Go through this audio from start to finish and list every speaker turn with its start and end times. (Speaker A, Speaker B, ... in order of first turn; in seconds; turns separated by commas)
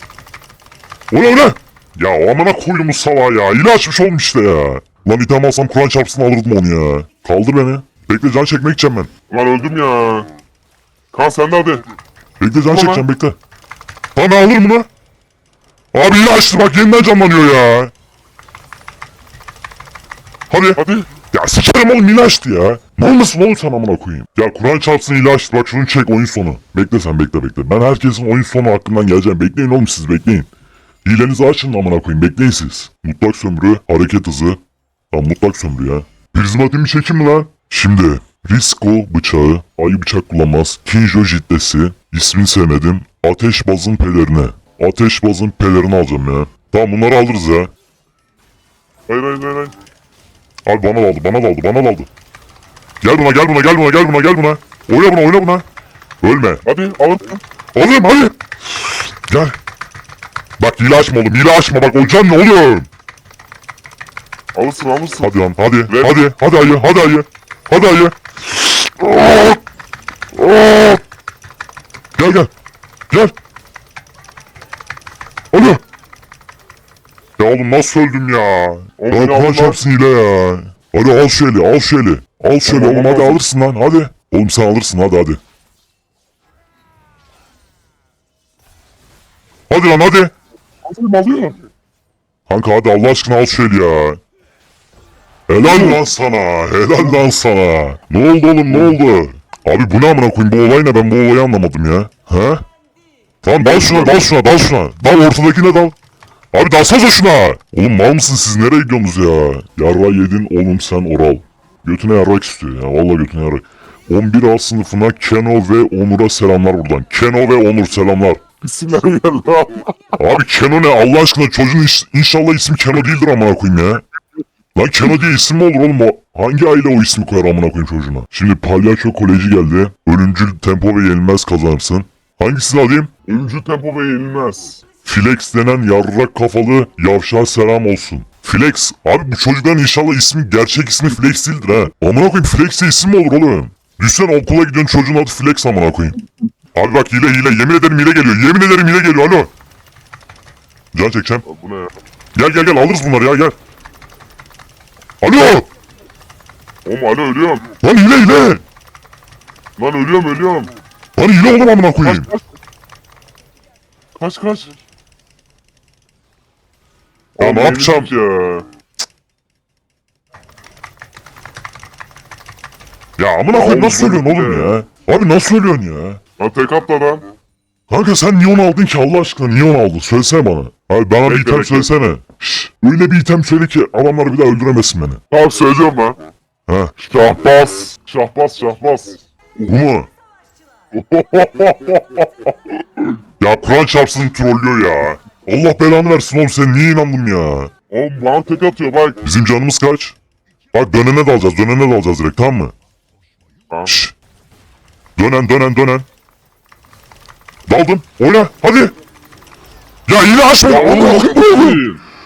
Speaker A: 1.1-9.1, Speaker B: 9.3-10.3, Speaker B: 11.1-11.8, Speaker A: 12.4-13.3, Speaker B: 12.7-13.1, Speaker A: 14.1-14.9, Speaker A: 15.9-17.9, Speaker A: 20.5-30.5, Speaker B: 20.8-21.1, Speaker A: 31.0-34.6, Speaker A: 35.1-47.7, Speaker B: 49.1-49.7, Speaker A: 50.6-52.1, Speaker A: 53.0-55.6, Speaker A: 56.2-56.6, Speaker B: 56.6-57.4, Speaker A: 57.7-59.6, Speaker A: 60.6-62.9, Speaker B: 64.5-65.3, Speaker A: 65.2-69.6, Speaker B: 65.9-66.2, Speaker A: 70.3-71.0, Speaker A: 72.2-72.5, Speaker A: 75.5-75.8, Speaker A: 77.4-85.4, Speaker B: 79.0-79.8, Speaker B: 82.6-83.4, Speaker A: 89.7-90.3, Speaker B: 90.8-91.6, Speaker A: 92.5-94.2, Speaker A: 95.5-102.6, Speaker B: 95.6-96.0, Speaker A: 103.4-106.0, Speaker B: 103.6-104.3, Speaker A: 106.5-118.4, Speaker B: 118.6-119.9, Speaker A: 120.2-124.0, Speaker A: 124.7-133.1, Speaker B: 133.2-134.8, Speaker A: 135.0-146.2, Speaker A: 146.7-149.5, Speaker A: 150.9-151.4, Speaker B: 151.4-151.9, Speaker A: 152.3-153.6, Speaker A: 155.2-155.7, Speaker B: 156.8-157.7, Speaker A: 157.8-158.6, Speaker B: 159.8-160.7, Speaker A: 161.2-162.3, Speaker B: 162.0-162.4, Speaker B: 164.2-164.7, Speaker B: 167.4-168.7, Speaker A: 167.4-168.1, Speaker A: 173.2-176.2, Speaker B: 173.5-174.8, Speaker B: 176.4-177.3, Speaker A: 177.9-185.2, Speaker B: 181.2-181.9, Speaker B: 185.3-186.2, Speaker A: 186.7-186.9, Speaker B: 187.0-189.2, Speaker A: 189.7-190.1, Speaker B: 190.9-193.0, Speaker A: 193.4-197.7, Speaker B: 197.9-199.2, Speaker A: 199.2-200.2, Speaker A: 200.7-202.7, Speaker B: 203.7-204.0, Speaker A: 203.9-204.1, Speaker A: 205.2-206.1, Speaker A: 207.7-208.9, Speaker A: 210.1-211.8, Speaker B: 210.6-212.0